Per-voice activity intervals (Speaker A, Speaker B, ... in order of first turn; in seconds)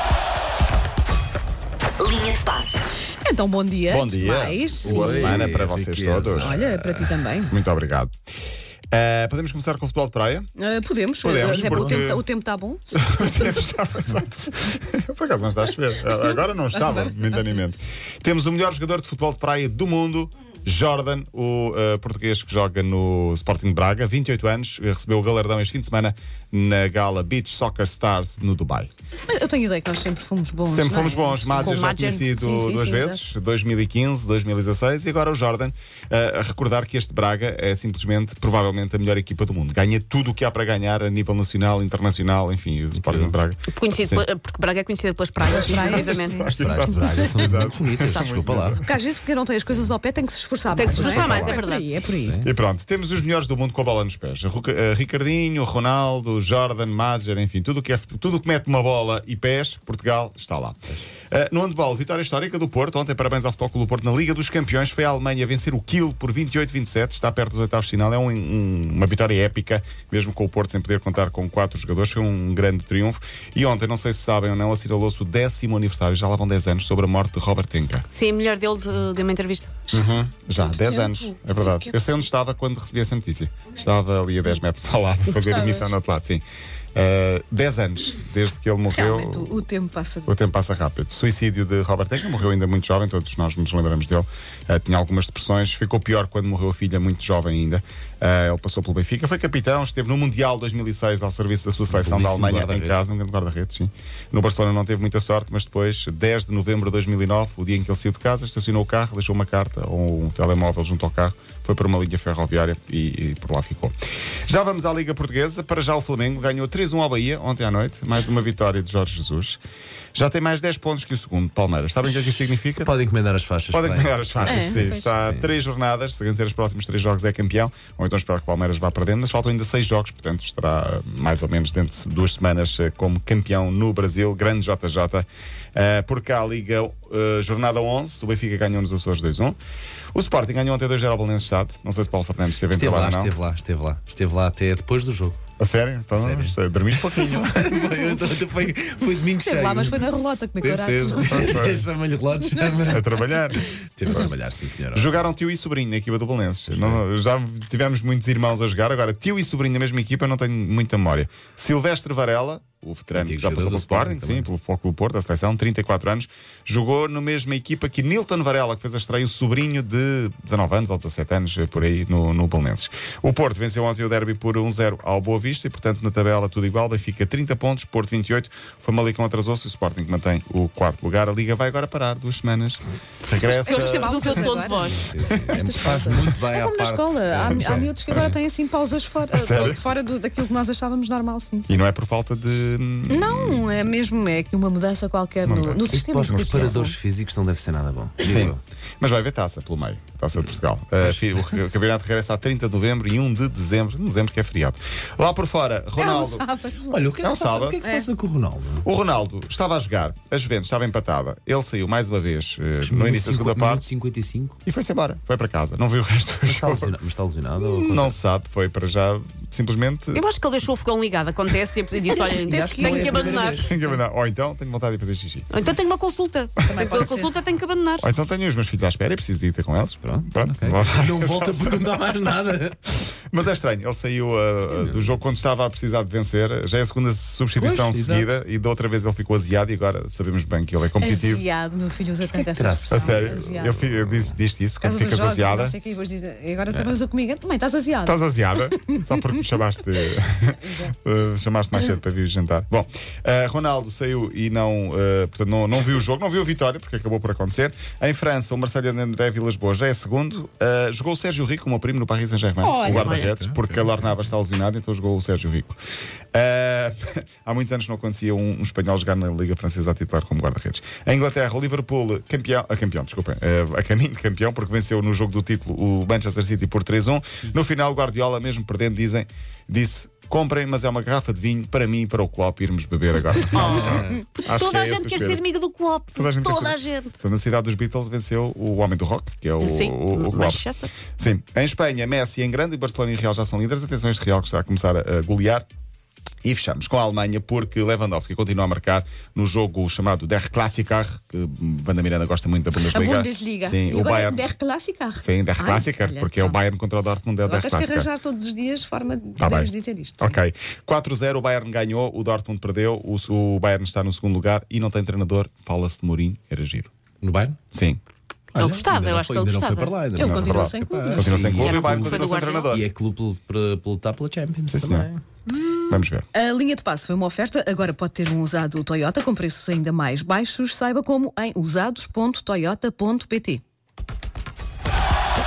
Speaker A: 3.2-5.5, 6.3-7.5, 10.6-13.5, 16.8-17.2, 29.3-33.2, 45.5-47.0, 48.8-52.4, 79.9-82.2, 85.3-86.0, 88.9-90.3, 124.5-125.1, 149.4-151.7, 183.4-191.7, 193.1-197.0, 206.0-207.1, 207.8-208.1, 222.1-223.6, 226.7-227.3, 241.0-243.8, 244.8-248.2, 250.6-250.9, 262.6-263.2, 302.8-306.6, 307.4-310.4, 320.1-321.5, 326.3-333.6
Speaker B: 3.9-6.6, 7.5-8.1, 8.9-10.5, 11.2-12.2, 12.9-28.9, 30.6-44.2, 45.5-48.9, 52.4-60.8, 61.3-78.0, 79.9-86.4, 86.9-89.6, 90.2-113.9, 114.5-119.6, 120.1-122.9, 123.7-139.6, 140.1-143.3, 145.6-147.8, 151.0-151.8, 152.8-154.2, 154.9-184.6, 187.5-188.3, 189.3-189.8, 191.7-193.9, 195.4-196.8, 198.2-206.4, 207.2-207.8, 208.8-213.9, 214.7-216.9, 217.8-220.2, 223.6-225.5, 228.0-231.9, 233.3-241.4, 242.9-245.8, 248.0-265.8, 266.3-285.4, 286.1-295.6, 296.4-304.5, 305.2-308.1, 309.4-316.9, 317.7-318.0, 320.2-322.9, 324.7-325.1, 325.9-326.2
Speaker C: 4.8-7.1, 11.5-12.0, 42.9-43.4, 46.4-48.8, 50.8-51.6, 52.2-52.5, 101.9-103.0, 122.8-125.5, 142.7-145.4, 146.1-153.0, 153.6-155.2, 156.7-157.0, 163.1-164.5, 184.8-188.3, 189.5-189.8, 195.9-198.6, 201.0-201.5, 206.9-208.9, 212.8-214.6, 216.5-218.1, 222.2-223.9, 230.0-232.9, 234.7-235.2, 237.6-238.4, 242.2-244.3, 246.7-247.0, 262.8-264.2, 283.8-284.0, 317.2-317.6, 318.5-325.2
Speaker D: 31.6-32.2, 43.7-46.5, 48.1-48.5, 50.7-51.9, 78.1-79.7, 183.4-185.1, 220.1-223.7, 225.5-228.0, 283.4-287.1, 289.6-290.9, 318.6-320.0, 321.5-322.8